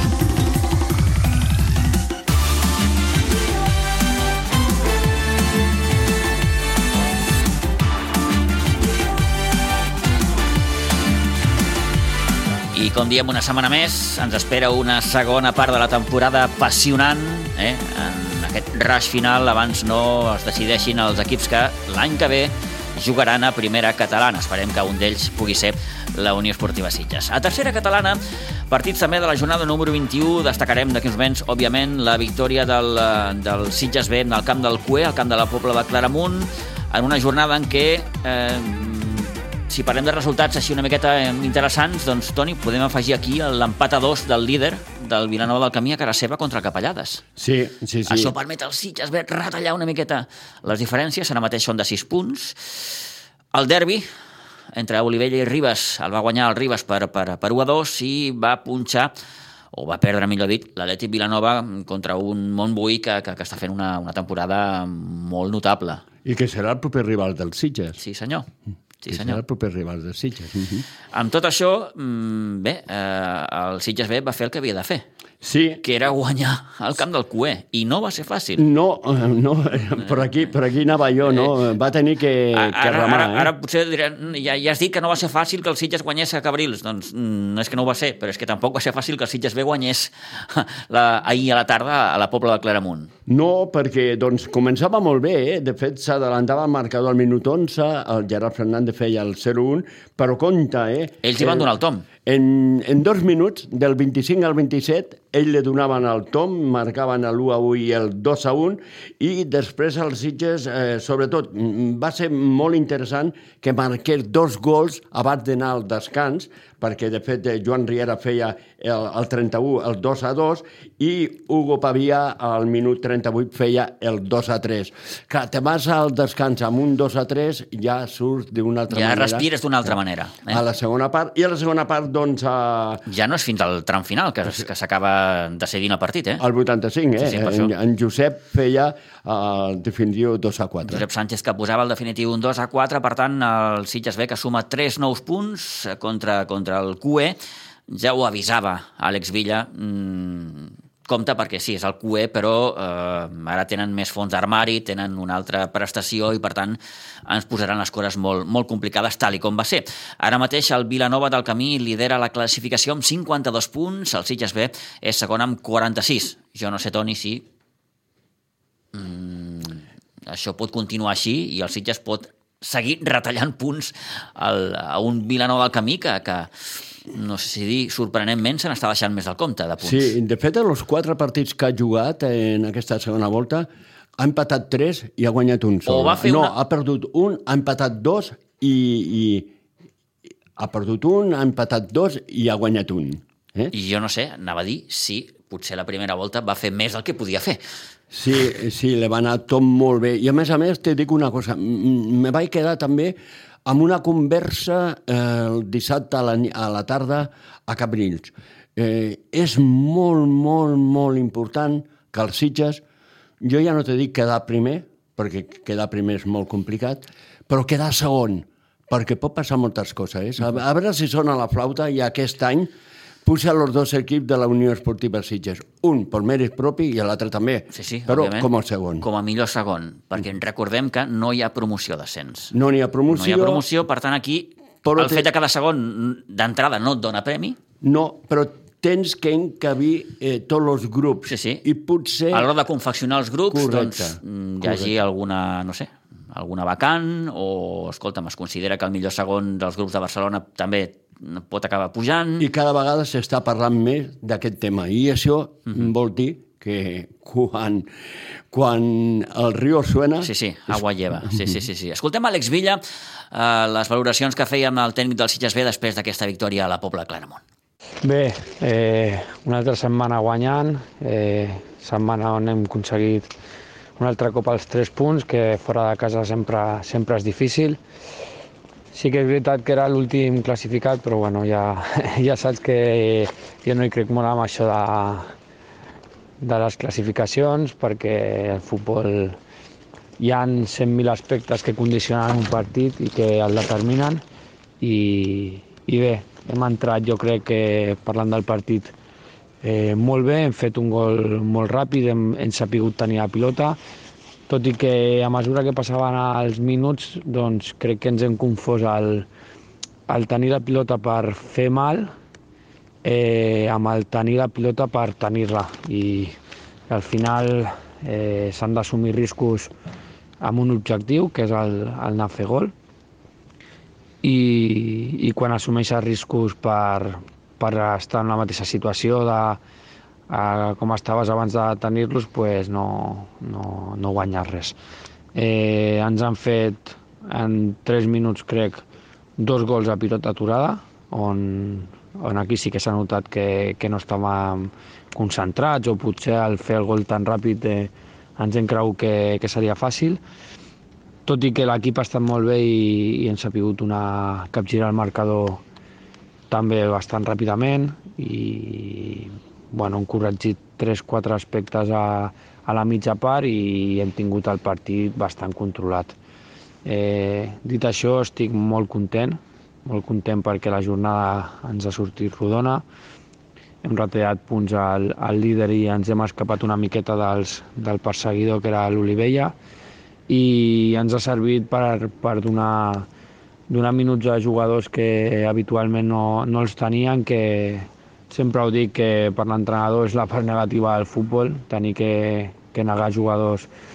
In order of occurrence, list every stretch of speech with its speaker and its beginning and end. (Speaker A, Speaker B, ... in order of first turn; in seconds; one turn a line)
Speaker A: 12.7-47.2
Speaker B: 47.4-48.3
Speaker A: 48.1-53.0
Speaker A: 53.5-54.1
Speaker A: 54.7-59.1
Speaker A: 59.7-66.0
Speaker B: 66.2-68.0
Speaker A: 68.0-68.5
Speaker A: 69.0-69.4
Speaker B: 69.1-70.8
Speaker A: 71.1-75.0
Speaker B: 75.4-75.8
Speaker A: 75.8-78.7
Speaker B: 78.6-83.5
Speaker A: 82.5-93.1
Speaker B: 93.3-101.7
Speaker A: 101.2-102.0
Speaker B: 102.2-129.9
Speaker A: 128.9-130.6
Speaker B: 130.5-133.0
Speaker A: 133.1-136.4
Speaker B: 136.4-141.0
Speaker A: 137.2-137.7
Speaker A: 140.9-147.4
Speaker A: 147.9-167.4
Speaker A: 168.9-176.5
Speaker A: 177.1-180.2
Speaker B: 179.8-183.7
Speaker B: 184.2-189.5
Speaker A: 185.9-186.6
Speaker B: 190.6-193.7
Speaker A: 193.7-197.6
Speaker B: 198.1-212.8
Speaker B: 213.4-222.7
Speaker B: 223.2-229.1
Speaker A: 227.7-228.5
Speaker A: 229.0-232.5
Speaker B: 232.5-233.6
Speaker A: 233.1-237.6
Speaker B: 234.8-235.3
Speaker B: 237.8-242.5
Speaker A: 241.3-241.6
Speaker A: 242.3-252.5
Speaker B: 243.5-244.9
Speaker B: 252.4-257.9
Speaker B: 258.5-260.8
Speaker A: 260.2-267.4
Speaker B: 261.3-261.6
Speaker C: 268.0-273.3
Speaker C: 274.0-277.8
Speaker C: 278.9-285.3
Speaker C: 286.4-289.4
Speaker C: 290.2-294.2
Speaker C: 294.8-298.9
Speaker C: 299.6-303.8
Speaker C: 304.5-309.3
Speaker C: 310.1-312.1
Speaker C: 313.0-316.4
Speaker C: 316.9-319.7
Speaker C: 320.4-322.7
Speaker C: 324.2-329.6
Speaker C: 330.3-334.8
Speaker C: 335.4-338.8
Speaker C: 339.4-350.2
Speaker C: 351.3-355.6
Speaker C: 356.5-366.2
Speaker C: 366.9-372.9
Speaker C: 373.8-379.6
Speaker C: 380.3-383.1
Speaker C: 383.7-393.7